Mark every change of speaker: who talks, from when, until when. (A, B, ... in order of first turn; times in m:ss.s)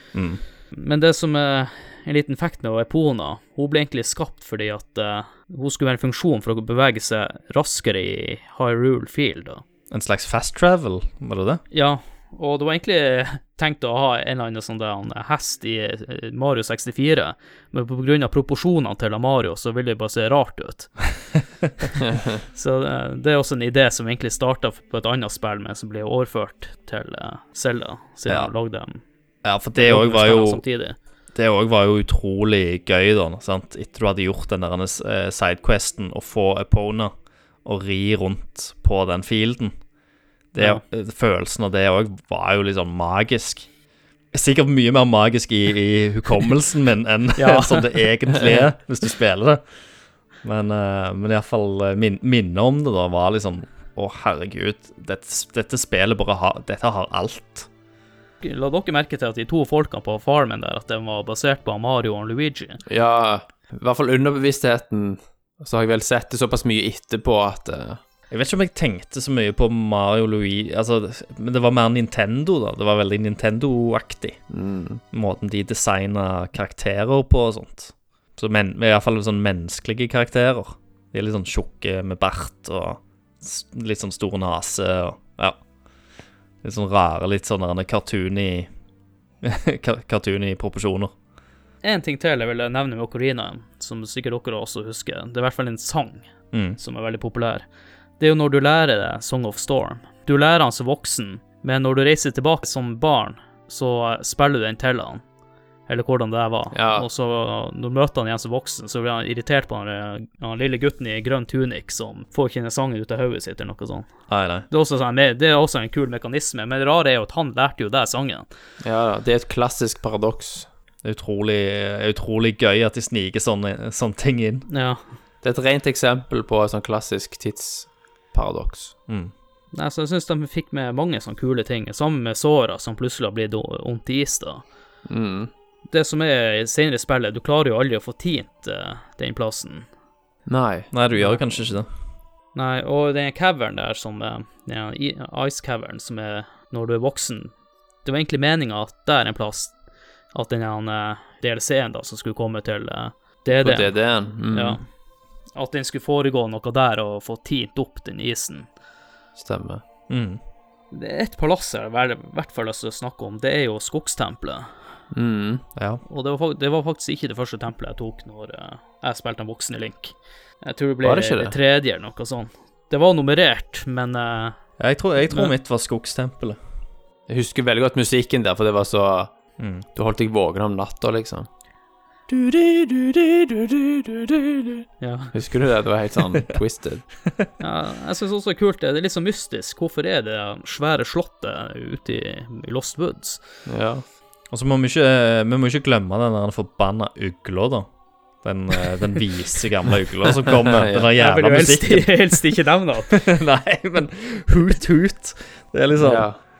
0:00.1-0:00.4 A
0:00.7-0:09.6 B
0:09.9-0:11.6 A
0:11.7-0:21.0 B
0:22.5-0:29.0 B
0:29.4-0:30.6 A
0:29.7-0:31.0 B
0:31.3-0:37.1 A
0:37.6-0:39.7 A
0:40.5-0:43.7 A
0:40.6-0:40.8 B
0:44.3-0:49.6 A
0:47.4-0:48.1 B
0:48.4-0:48.7 C
0:50.4-0:57.7 A
0:58.4-1:02.8 B
1:02.9-1:08.0 C
1:08.3-1:14.4 A
1:14.5-1:15.0 C
1:15.1-1:25.6 A
1:26.6-1:28.7 A
1:29.4-1:31.1 A
1:31.8-1:37.6 B
1:36.5-1:36.8 A
1:38.2-1:45.2 B
1:45.9-1:54.1 B
1:46.7-1:47.0 C
1:54.3-1:54.7 A
1:54.7-1:58.5 B
1:58.8-2:00.7 C
2:01.0-2:04.7 A
2:04.7-2:05.0 B
2:05.4-2:08.9 C
2:09.7-2:14.6 B
2:15.0-2:15.5 C
2:15.9-2:19.9 B
2:20.5-2:20.9 C
2:20.9-2:21.9 A
2:21.2-2:21.4 B
2:22.5-2:27.5 B
2:28.0-2:29.8 B
2:30.3-2:34.0 B
2:33.6-2:34.8 C
2:34.5-2:34.8 B
2:35.5-2:38.7 B
2:39.4-2:39.8 C
2:40.1-2:40.4 A
2:40.9-2:44.7 B
2:45.1-2:45.6 C
2:45.8-2:46.0 A
2:46.0-2:54.6 B
2:51.0-2:51.5 C
2:54.8-2:56.6 A
2:55.2-2:55.5 B
2:57.3-2:59.3 C
2:59.6-2:59.9 A
2:59.9-3:01.5 C
3:02.3-3:07.0 C
3:05.0-3:05.3 B
3:07.6-3:13.4 B
3:13.6-3:14.0 C
3:14.5-3:17.9 A
3:18.4-3:22.4 A
3:20.4-3:21.1 C
3:21.2-3:23.1 B
3:23.1-3:26.3 A
3:26.0-3:26.4 C